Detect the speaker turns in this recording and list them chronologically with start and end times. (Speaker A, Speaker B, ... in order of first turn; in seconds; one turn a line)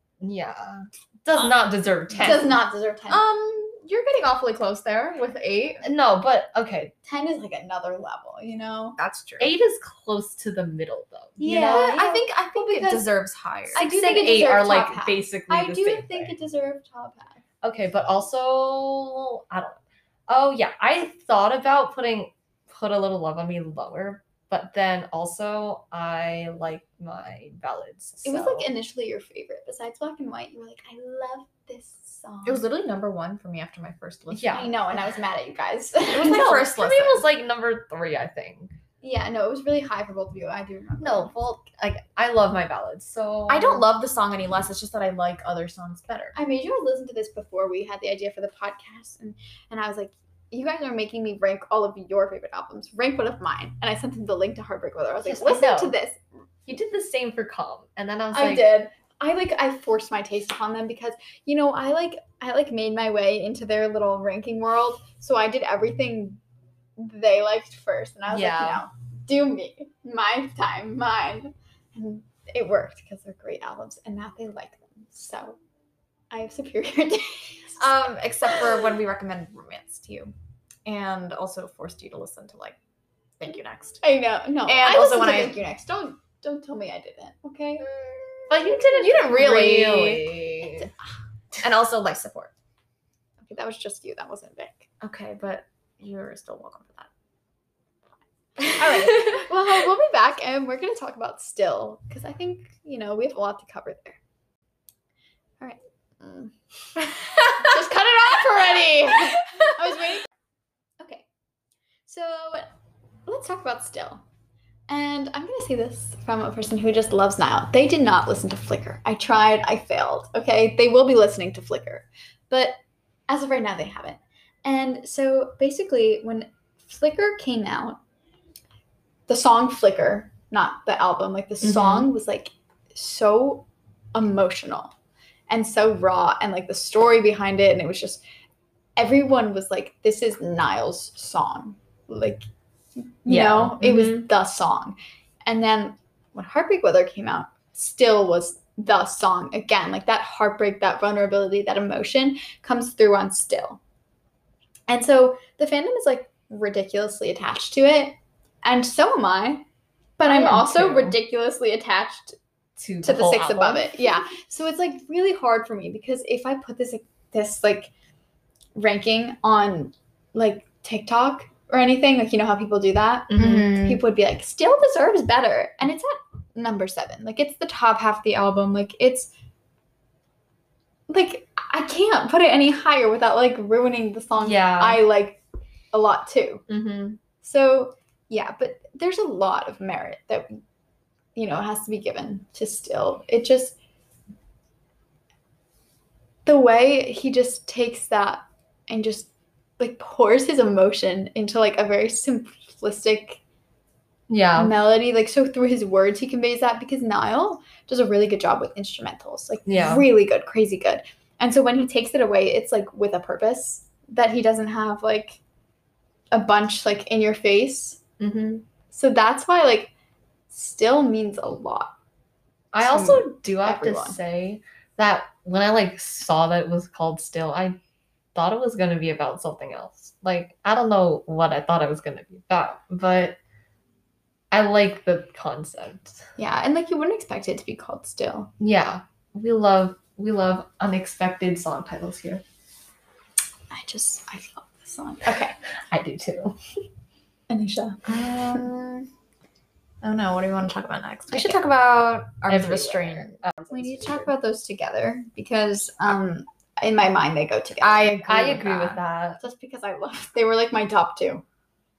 Speaker A: 0.2-2.6
Speaker B: 2.2-3.2
Speaker C: 3.1-5.9
Speaker A: 5.8-6.9
Speaker B: 7.1-9.0
Speaker C: 9.0-9.5
Speaker A: 9.4-11.4
Speaker B: 11.4-13.1
Speaker C: 11.4-13.9
Speaker A: 13.8-16.4
Speaker B: 13.8-17.4
Speaker A: 17.6-28.7
Speaker B: 28.2-32.6
Speaker C: 32.5-34.8
Speaker A: 34.3-34.7
Speaker B: 34.5-37.1
Speaker A: 36.2-38.7
Speaker C: 36.2-37.1
Speaker B: 39.0-41.4
Speaker A: 41.0-43.9
Speaker C: 43.5-46.4
Speaker B: 46.4-56.2
Speaker A: 55.2-55.9
Speaker A: 56.7-58.7
Speaker B: 58.3-66.4
Speaker B: 67.0-75.6
Speaker A: 68.3-68.8
Speaker B: 76.3-77.9
Speaker C: 77.8-80.3
Speaker C: 80.9-82.8
Speaker C: 83.4-84.0
Speaker B: 84.0-87.9
Speaker C: 84.7-85.6
Speaker C: 88.3-90.6
Speaker A: 88.5-90.9
Speaker C: 91.6-92.5
Speaker B: 93.4-94.9
Speaker C: 95.0-97.1
Speaker B: 98.6-104.2
Speaker C: 98.8-99.2
Speaker B: 105.6-110.2
Speaker C: 107.6-109.3
Speaker B: 111.0-111.2
Speaker B: 112.1-112.7
Speaker B: 113.3-114.2
Speaker B: 114.9-128.0
Speaker B: 129.3-134.9
Speaker A: 131.6-132.1
Speaker B: 135.5-138.2
Speaker B: 139.0-142.4
Speaker B: 143.2-153.8
Speaker A: 143.3-144.2
Speaker B: 154.9-159.7
Speaker B: 160.2-162.4
Speaker A: 160.3-161.2
Speaker A: 162.8-163.9
Speaker B: 163.0-167.9
Speaker B: 168.8-179.3
Speaker A: 173.3-173.8
Speaker C: 173.4-174.0
Speaker B: 181.1-185.4
Speaker A: 184.4-185.0
Speaker B: 185.9-186.6
Speaker A: 186.7-187.2
Speaker B: 187.4-190.6
Speaker B: 191.4-193.8
Speaker B: 196.5-203.4
Speaker A: 204.3-204.7
Speaker B: 204.6-215.4
Speaker A: 209.7-210.1
Speaker B: 216.3-218.0
Speaker A: 218.2-218.7
Speaker B: 218.9-219.9
Speaker B: 220.5-221.9
Speaker A: 222.7-227.8
Speaker B: 222.8-224.2
Speaker A: 228.3-233.4
Speaker A: 234.5-236.2
Speaker B: 236.4-238.5
Speaker A: 238.6-242.4
Speaker B: 243.7-245.6
Speaker A: 245.9-246.6
Speaker B: 247.5-248.7
Speaker C: 248.1-249.1
Speaker C: 250.0-253.4
Speaker A: 251.3-251.6
Speaker A: 252.5-254.3
Speaker B: 253.7-261.4
Speaker A: 258.0-259.4